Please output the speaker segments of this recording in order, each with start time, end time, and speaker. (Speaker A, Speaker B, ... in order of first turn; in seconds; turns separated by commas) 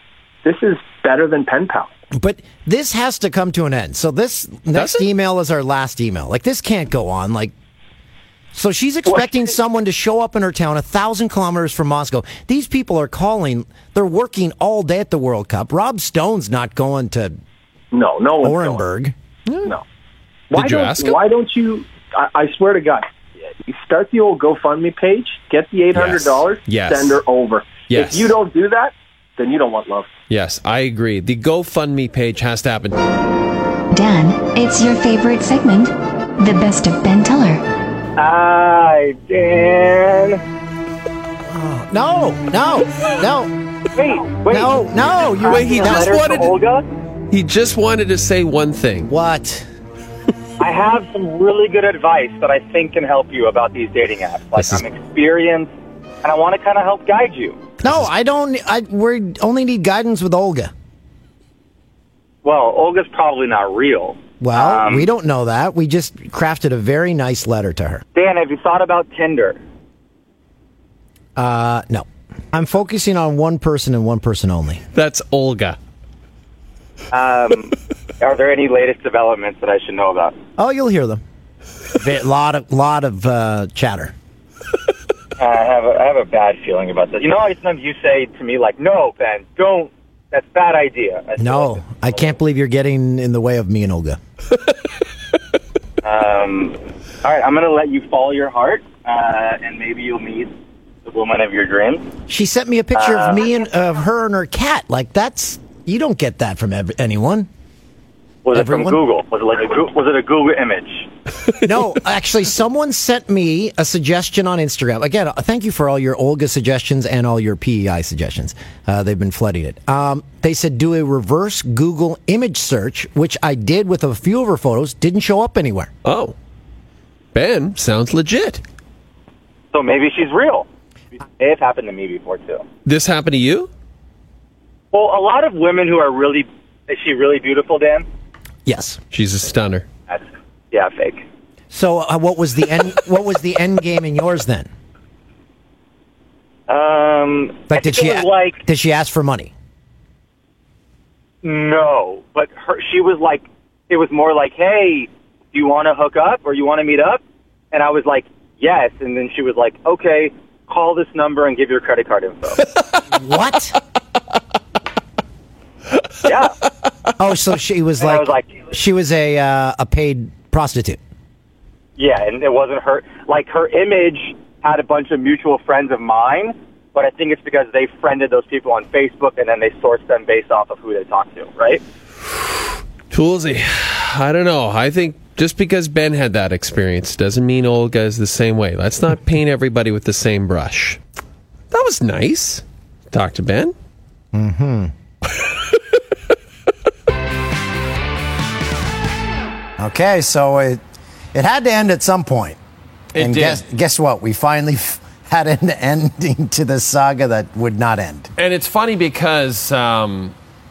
Speaker A: 0.4-1.9, Speaker B: 2.1-7.5, Speaker C: 4.7-5.1, Speaker B: 8.5-17.4, Speaker A: 17.9-18.8, Speaker B: 18.4-19.1, Speaker C: 19.5-19.7, Speaker A: 20.5-23.1, Speaker C: 20.5-21.2, Speaker A: 23.6-30.1, Speaker C: 25.9-27.2, Speaker C: 27.9-28.4, Speaker C: 30.3-33.0, Speaker D: 33.9-37.6, Speaker E: 38.2-40.4, Speaker B: 41.5-43.5, Speaker E: 43.9-46.9, Speaker B: 44.5-46.0, Speaker C: 45.4-46.5, Speaker C: 47.3-49.1, Speaker B: 49.0-49.7, Speaker E: 50.6-55.7, Speaker C: 54.5-54.8, Speaker E: 56.2-57.6, Speaker B: 57.8-60.7, Speaker E: 62.4-65.1, Speaker B: 64.4-68.0, Speaker E: 68.1-69.6, Speaker B: 71.3-74.8, Speaker C: 74.9-75.8, Speaker E: 77.1-80.4, Speaker B: 80.6-81.2, Speaker B: 82.0-84.1, Speaker E: 85.4-92.3, Speaker B: 91.4-94.2, Speaker E: 96.0-100.5, Speaker E: 101.0-102.1, Speaker B: 102.3-107.5, Speaker E: 102.9-103.5, Speaker E: 108.4-111.1, Speaker B: 108.5-109.0, Speaker B: 111.6-125.9, Speaker C: 126.0-126.3, Speaker C: 127.3-128.6, Speaker E: 129.7-130.7, Speaker E: 131.4-132.6, Speaker C: 132.8-133.7, Speaker E: 134.9-138.1, Speaker B: 138.7-139.0, Speaker C: 139.1-139.9, Speaker E: 140.1-141.2, Speaker B: 141.7-144.7, Speaker E: 146.7-148.6, Speaker B: 147.7-149.5, Speaker E: 151.4-162.6, Speaker B: 163.1-163.8, Speaker E: 166.2-166.5, Speaker B: 167.2-171.0, Speaker E: 168.0-168.6, Speaker E: 172.0-181.8, Speaker C: 183.1-191.0, Speaker C: 191.7-193.7, Speaker B: 194.3-194.9, Speaker C: 195.4-195.9, Speaker B: 199.8-200.8, Speaker B: 201.3-202.6, Speaker C: 203.1-203.6, Speaker B: 203.2-208.3, Speaker C: 208.3-210.3